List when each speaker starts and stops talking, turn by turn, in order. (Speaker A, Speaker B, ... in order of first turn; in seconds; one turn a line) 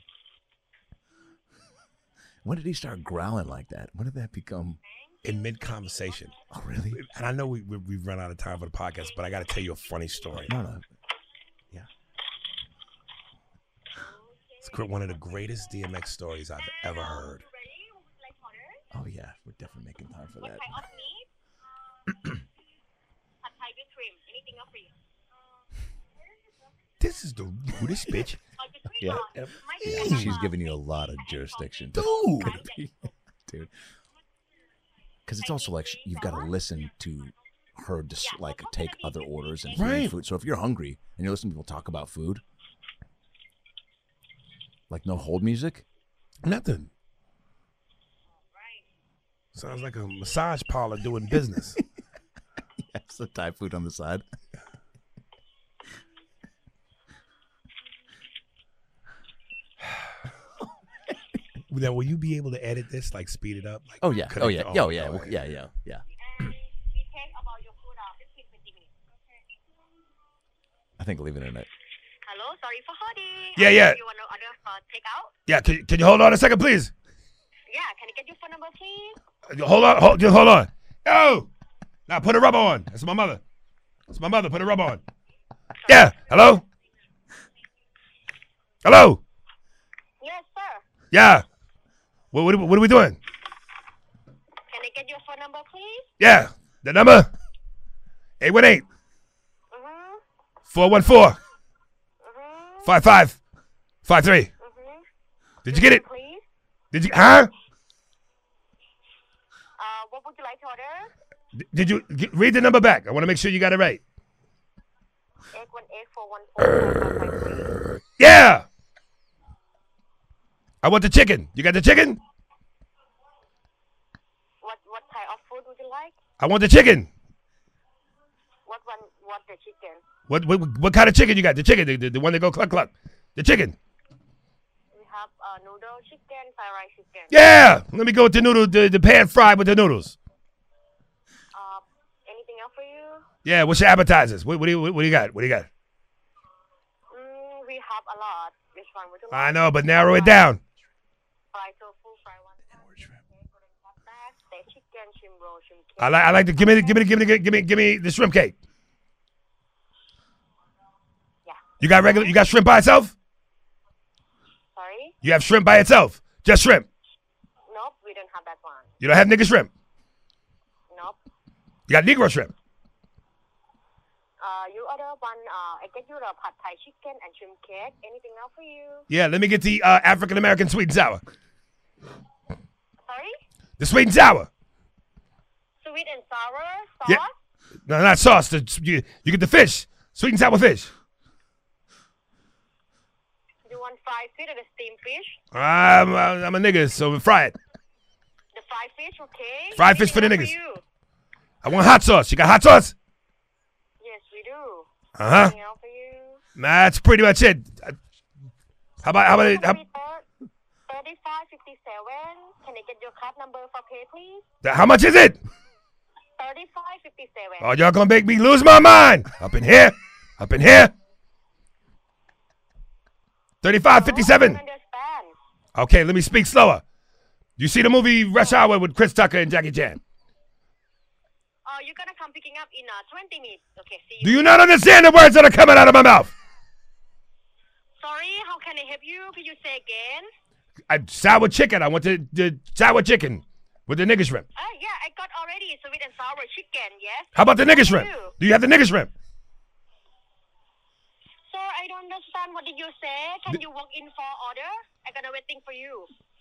Speaker A: 2.4-4.8
Speaker B: 4.8-6.3
Speaker C: 5.2-6.3
Speaker A: 6.5-7.0
Speaker C: 6.9-10.5
Speaker B: 9.0-10.5
Speaker A: 10.3-10.9
Speaker B: 14.0-15.7
Speaker C: 14.6-17.4
Speaker B: 16.6-18.8
Speaker A: 18.9-20.9
Speaker B: 20.4-21.3
Speaker B: 23.4-24.9
Speaker C: 27.0-28.4
Speaker B: 28.6-33.1
Speaker A: 29.0-29.3
Speaker C: 29.4-30.3
Speaker A: 29.8-33.7
Speaker C: 31.9-32.6
Speaker A: 35.3-42.4
Speaker B: 35.4-36.5
Speaker B: 38.2-40.0
Speaker C: 39.7-40.1
Speaker A: 44.9-45.8
Speaker C: 46.4-46.9
Speaker B: 48.5-48.9
Speaker C: 49.5-51.8
Speaker A: 52.8-54.2
Speaker C: 61.7-65.4
Speaker A: 64.0-66.0
Speaker B: 66.2-69.1
Speaker A: 71.0-71.7
Speaker B: 72.2-75.3
Speaker C: 73.6-74.0
Speaker C: 75.5-76.9
Speaker B: 77.7-79.2
Speaker C: 79.5-81.5
Speaker C: 82.1-83.4
Speaker C: 84.1-85.0
Speaker C: 85.9-86.6
Speaker C: 88.8-89.2
Speaker B: 90.2-90.8
Speaker C: 91.1-91.4
Speaker C: 92.3-93.2
Speaker B: 94.7-96.1
Speaker C: 96.2-97.3
Speaker C: 98.4-98.9
Speaker B: 99.7-100.2
Speaker C: 100.7-101.4
Speaker B: 102.2-102.9
Speaker C: 102.8-103.4
Speaker C: 104.0-104.5
Speaker B: 104.6-105.0
Speaker C: 105.7-106.0
Speaker B: 105.7-106.4
Speaker C: 106.9-107.5
Speaker B: 109.8-111.1
Speaker C: 111.6-114.0
Speaker B: 115.5-117.8
Speaker C: 116.8-117.4
Speaker C: 118.2-118.7
Speaker C: 120.8-122.2
Speaker B: 124.6-126.2
Speaker C: 126.4-127.1
Speaker B: 128.7-130.0
Speaker C: 130.3-133.8
Speaker B: 134.9-137.6
Speaker C: 137.3-140.2
Speaker B: 141.5-143.2
Speaker C: 143.4-145.7
Speaker B: 147.1-150.5
Speaker C: 149.3-150.6
Speaker B: 151.5-157.1
Speaker C: 156.0-158.6
Speaker B: 161.4-162.3
Speaker C: 161.8-163.1
Speaker B: 164.8-165.1
Speaker C: 165.2-166.9
Speaker B: 167.7-168.9
Speaker C: 169.0-169.7
Speaker B: 170.9-171.2
Speaker C: 171.9-172.5
Speaker B: 174.4-179.1
Speaker C: 179.1-181.2
Speaker B: 183.1-183.4
Speaker C: 183.8-184.5
Speaker B: 185.8-187.3
Speaker C: 187.9-190.9
Speaker B: 193.7-195.4
Speaker C: 195.5-197.6
Speaker B: 198.5-200.8
Speaker C: 199.8-200.5
Speaker C: 201.6-202.9
Speaker B: 204.0-206.4
Speaker C: 205.2-205.6
Speaker C: 206.6-208.0
Speaker C: 209.0-209.8
Speaker B: 209.3-210.2
Speaker B: 210.9-214.5
Speaker C: 214.6-215.4
Speaker B: 216.4-217.7
Speaker C: 217.6-220.9
Speaker C: 223.6-224.6
Speaker B: 223.9-225.3
Speaker C: 225.8-226.8
Speaker C: 227.6-230.0
Speaker B: 231.7-234.5
Speaker C: 234.2-236.3
Speaker B: 238.0-240.3
Speaker C: 240.9-244.5
Speaker B: 244.6-248.3
Speaker C: 247.3-249.1
Speaker B: 251.5-256.1